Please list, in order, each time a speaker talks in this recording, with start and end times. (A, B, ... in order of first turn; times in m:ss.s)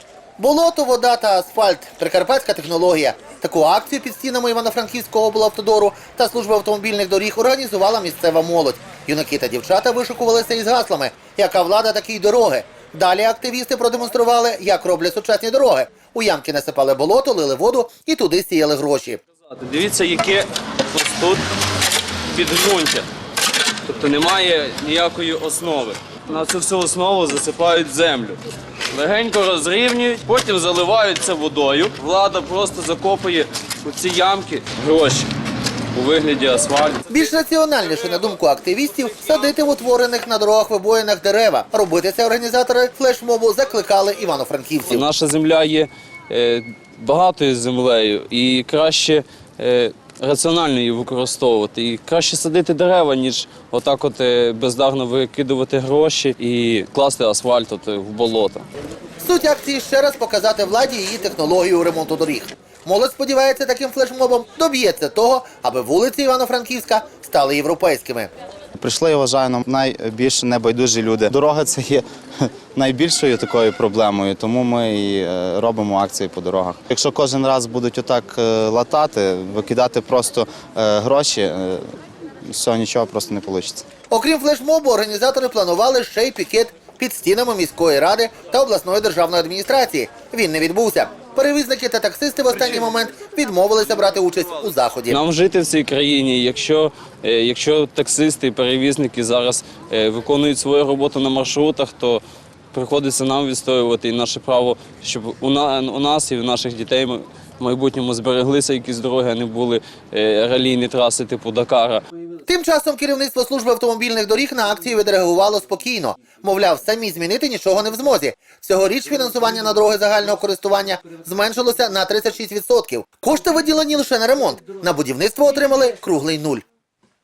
0:00.4-0:19.2 A
0:19.5-0:21.4 B
0:22.3-0:23.1 B
0:23.8-0:28.4 B
0:28.9-0:35.3 B
0:35.9-0:37.1 B
0:37.1-0:45.1 A
0:44.9-0:58.6 B
0:59.2-1:08.3 A
1:08.8-1:21.9 C
1:22.4-1:23.8 C
1:24.1-1:35.2 A
1:35.1-1:42.2 B
1:42.7-1:52.0 B
1:52.5-2:06.6 A